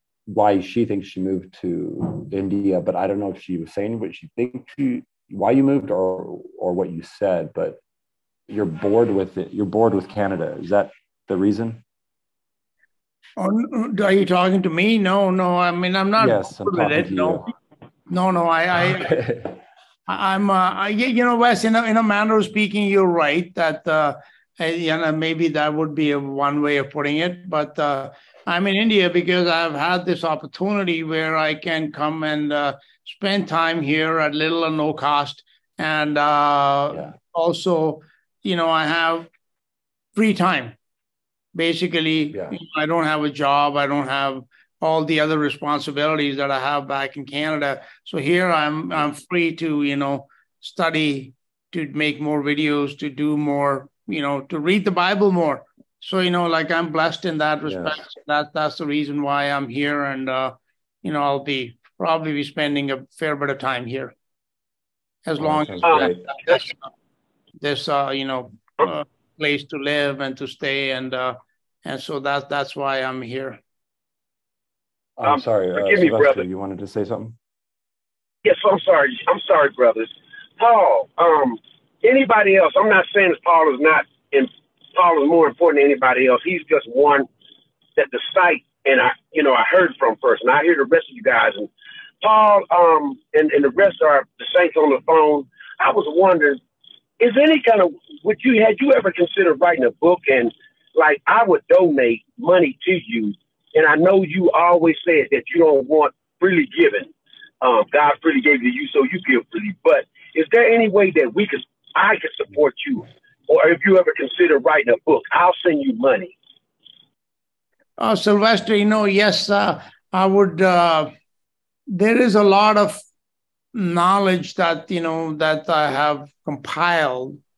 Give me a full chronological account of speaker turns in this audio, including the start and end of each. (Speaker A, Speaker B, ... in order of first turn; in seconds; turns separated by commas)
Speaker A: 0.3-7.8, Speaker A: 8.5-11.8, Speaker B: 13.4-17.5, Speaker A: 16.2-17.5, Speaker B: 18.1-19.1, Speaker A: 18.9-19.6, Speaker B: 20.1-39.3, Speaker B: 40.1-40.8, Speaker B: 41.5-64.1, Speaker A: 57.7-58.0, Speaker B: 65.2-66.8, Speaker A: 65.4-66.5, Speaker C: 65.8-66.1, Speaker B: 67.6-73.6, Speaker A: 75.2-77.4, Speaker C: 75.2-76.4, Speaker C: 78.4-87.3, Speaker C: 88.0-91.7, Speaker C: 92.2-96.6, Speaker C: 97.2-116.3, Speaker B: 118.0-121.1, Speaker B: 121.9-123.0, Speaker B: 123.7-127.4